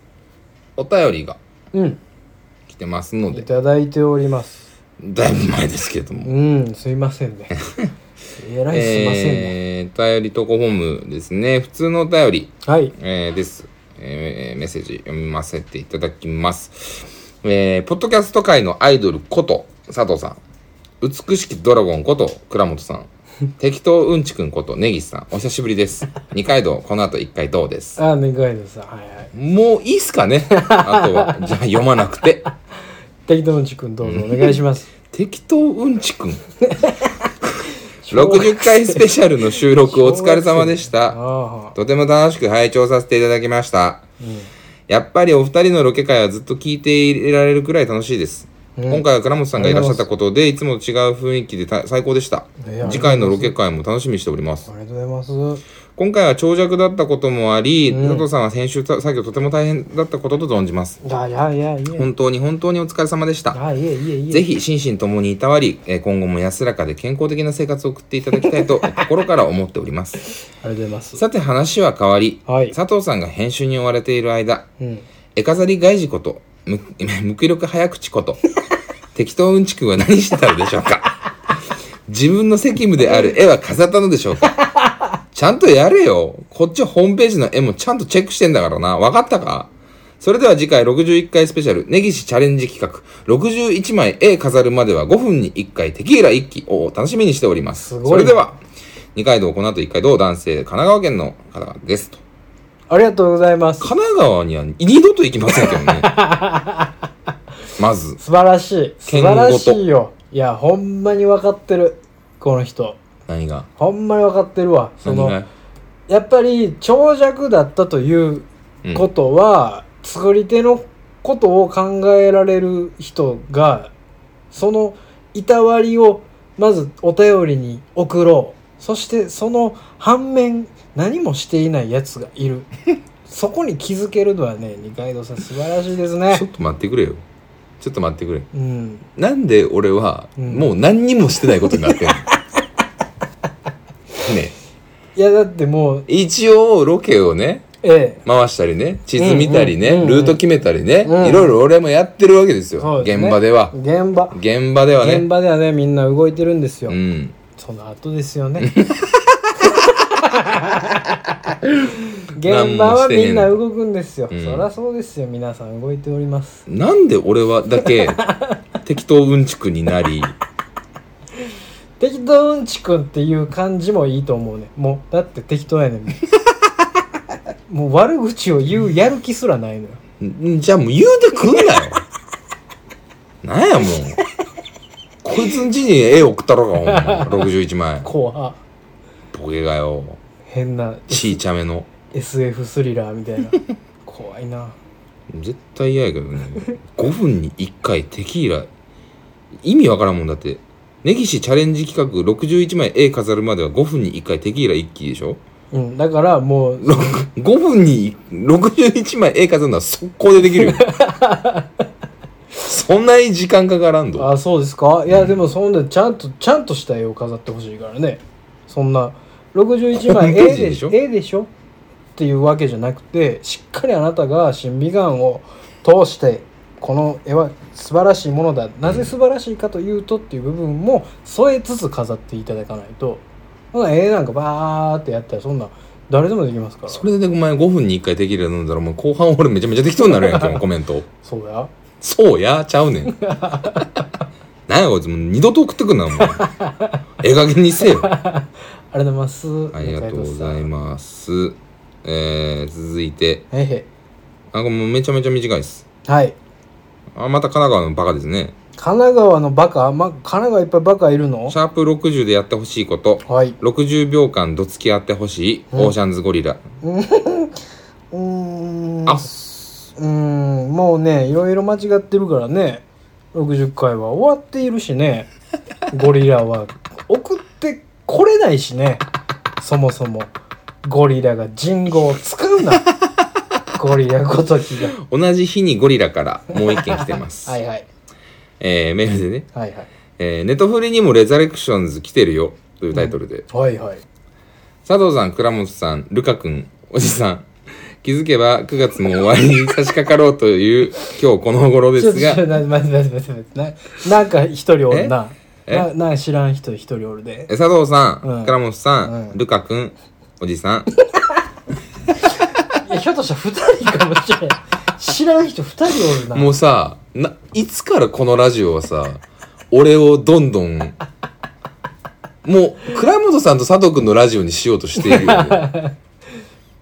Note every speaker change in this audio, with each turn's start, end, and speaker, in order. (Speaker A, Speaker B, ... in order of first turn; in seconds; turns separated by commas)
Speaker A: 0.8-1.4, Speaker B: 1.7-2.0, Speaker A: 2.7-3.5, Speaker B: 3.3-4.7, Speaker A: 5.0-6.3, Speaker B: 6.2-7.6, Speaker A: 7.5-7.9, Speaker B: 8.3-9.6, Speaker A: 8.7-20.4, Speaker B: 12.6-12.9, Speaker A: 21.0-23.1, Speaker A: 23.6-28.0, Speaker B: 28.0-29.3, Speaker A: 29.3-32.5, Speaker B: 30.6-31.5, Speaker B: 33.3-34.9, Speaker A: 34.0-34.6, Speaker A: 35.1-36.4, Speaker B: 36.7-37.3, Speaker A: 37.4-41.2, Speaker B: 38.0-41.8, Speaker A: 41.8-44.0, Speaker B: 44.2-44.5, Speaker A: 44.9-54.7, Speaker B: 48.8-50.1, Speaker B: 52.6-53.5, Speaker B: 54.7-55.6, Speaker A: 56.0-61.0, Speaker B: 57.9-58.3, Speaker B: 61.0-62.1, Speaker A: 62.0-63.6, Speaker B: 63.5-64.5, Speaker A: 64.3-70.3, Speaker B: 70.5-71.2, Speaker A: 71.2-74.7, Speaker B: 72.5-72.8, Speaker B: 74.8-75.0, Speaker A: 75.4-78.4, Speaker A: 79.1-81.2, Speaker A: 82.1-84.6, Speaker B: 84.6-84.9, Speaker A: 85.3-98.6, Speaker B: 97.8-98.4, Speaker A: 99.2-102.2, Speaker B: 102.9-103.9, Speaker A: 103.8-106.1, Speaker B: 105.6-106.9, Speaker A: 107.8-108.2, Speaker B: 108.2-113.0, Speaker A: 109.0-109.8, Speaker A: 113.3-113.7, Speaker B: 113.8-115.4, Speaker A: 115.0-115.5, Speaker B: 116.1-123.9, Speaker B: 124.5-132.7, Speaker B: 133.3-136.5, Speaker A: 136.3-137.2, Speaker A: 137.8-138.5, Speaker B: 138.5-139.1, Speaker A: 139.2-142.3, Speaker B: 140.4-140.7, Speaker A: 144.2-144.5, Speaker B: 145.2-146.1, Speaker A: 146.1-147.7, Speaker B: 147.8-148.2, Speaker A: 148.2-153.8, Speaker B: 149.2-150.4, Speaker B: 151.0-151.6, Speaker B: 152.8-154.4, Speaker A: 154.3-155.3, Speaker B: 155.0-157.0, Speaker A: 156.9-157.4, Speaker B: 157.6-158.7, Speaker A: 158.6-159.7, Speaker B: 159.7-161.2, Speaker A: 161.6-163.6, Speaker B: 162.3-166.7, Speaker A: 164.3-164.7, Speaker A: 166.7-168.2, Speaker B: 168.3-168.6, Speaker A: 168.8-170.3, Speaker B: 172.0-176.3, Speaker B: 177.7-180.0, Speaker A: 180.2-182.0, Speaker A: 183.4-184.2, Speaker A: 185.2-188.1, Speaker B: 186.9-187.4, Speaker B: 188.0-188.6, Speaker A: 189.3-190.2, Speaker B: 190.5-191.4, Speaker A: 191.1-191.9, Speaker B: 192.1-194.8, Speaker A: 195.3-198.7, Speaker A: 199.6-205.4, Speaker B: 205.7-207.3, Speaker A: 206.8-210.9, Speaker B: 210.5-211.7, Speaker A: 212.6-214.3, Speaker B: 214.2-221.5, Speaker A: 215.1-215.3, Speaker A: 219.9-221.0, Speaker B: 222.2-237.1, Speaker A: 228.8-229.1, Speaker A: 236.9-241.1, Speaker B: 240.0-240.6, Speaker B: 241.2-241.7, Speaker A: 242.0-243.9, Speaker B: 243.1-244.0, Speaker A: 244.7-246.5, Speaker B: 246.2-247.0, Speaker A: 247.2-248.1, Speaker B: 247.9-250.7, Speaker A: 249.7-253.4, Speaker B: 253.5-253.9, Speaker A: 254.5-255.8, Speaker B: 256.1-256.4, Speaker A: 257.1-258.6, Speaker B: 258.8-261.6, Speaker A: 261.5-266.6, Speaker B: 263.3-263.6, Speaker B: 266.8-275.3, Speaker A: 269.1-269.4, Speaker B: 275.9-279.1, Speaker B: 279.6-280.3, Speaker B: 280.8-282.9, Speaker B: 283.8-285.0, Speaker A: 285.0-287.6, Speaker B: 286.6-287.9, Speaker A: 288.6-289.5, Speaker B: 289.5-289.9, Speaker A: 290.2-293.5, Speaker B: 292.9-294.0, Speaker A: 294.9-297.5, Speaker A: 298.0-302.4, Speaker B: 302.0-307.5, Speaker A: 304.9-305.1, Speaker A: 307.5-310.9, Speaker B: 308.2-309.4, Speaker B: 312.8-316.5, Speaker A: 316.1-321.0, Speaker A: 322.4-325.8, Speaker B: 325.0-325.9